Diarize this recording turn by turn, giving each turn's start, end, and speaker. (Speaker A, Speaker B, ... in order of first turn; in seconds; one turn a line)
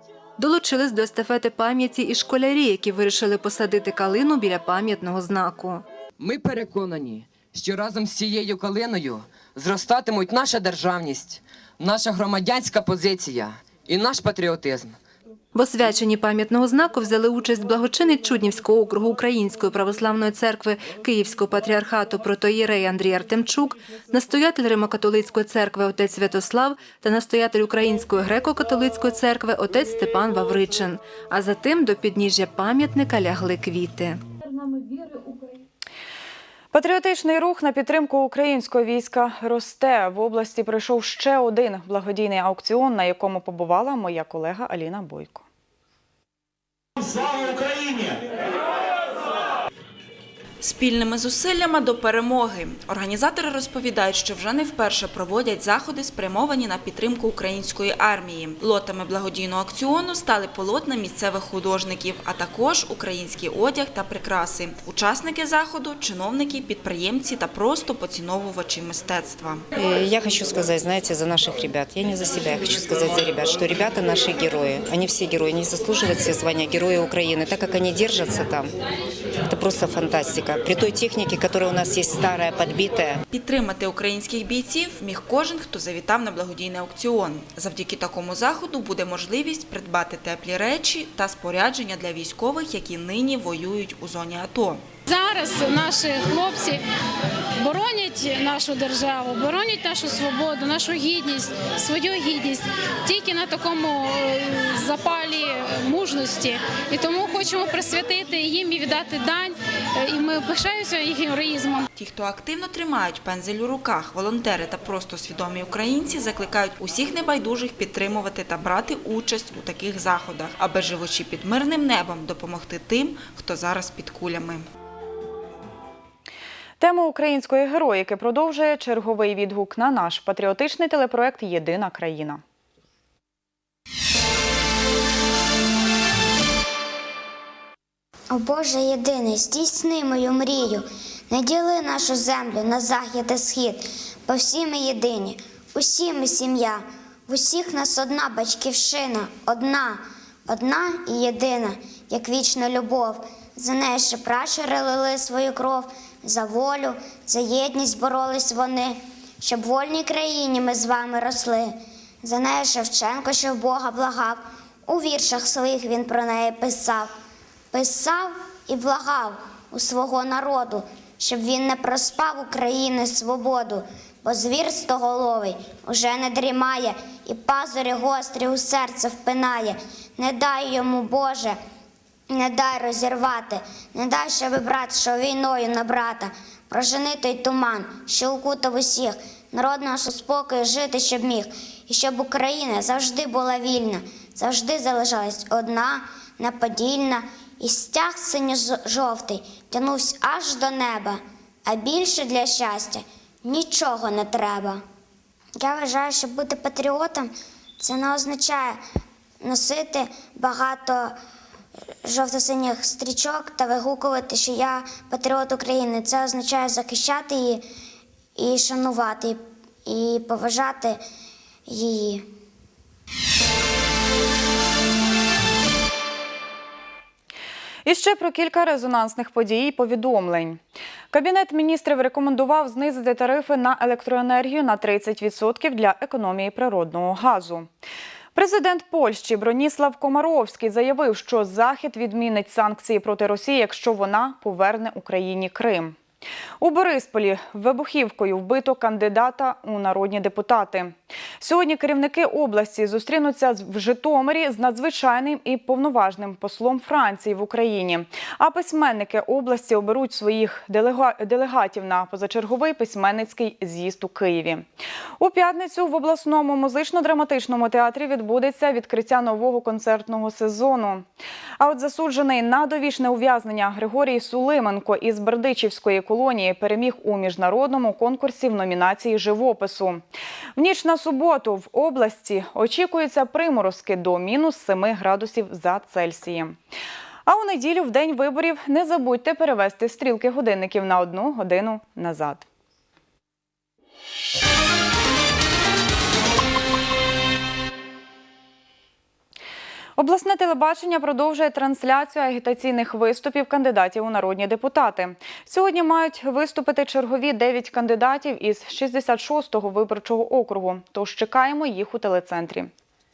Speaker A: 0.4-5.8
Speaker B: 6.2-15.0
Speaker A: 15.5-34.2
Speaker C: 36.7-45.5
Speaker D: 50.6-69.7
Speaker E: 69.8-78.7
Speaker E: 79.5-83.2
Speaker D: 83.3-94.8
Speaker F: 95.1-96.8
Speaker F: 97.6-111.8
Speaker D: 112.0-124.7
Speaker C: 126.8-132.4
Speaker G: 138.3-167.1
Speaker G: 167.7-181.6
Speaker G: 182.3-204.8
Speaker G: 205.6-208.8
Speaker G: 209.4-211.2
Speaker G: 212.0-217.7
Speaker G: 218.4-221.0
Speaker G: 221.7-222.3
Speaker C: 227.8-230.6
Speaker C: 231.1-237.7
Speaker C: 238.3-246.0
Speaker C: 246.6-264.6
Speaker C: 265.2-271.1
Speaker C: 271.6-280.0
Speaker C: 280.6-286.6
Speaker C: 287.3-292.5
Speaker C: 300.0-312.7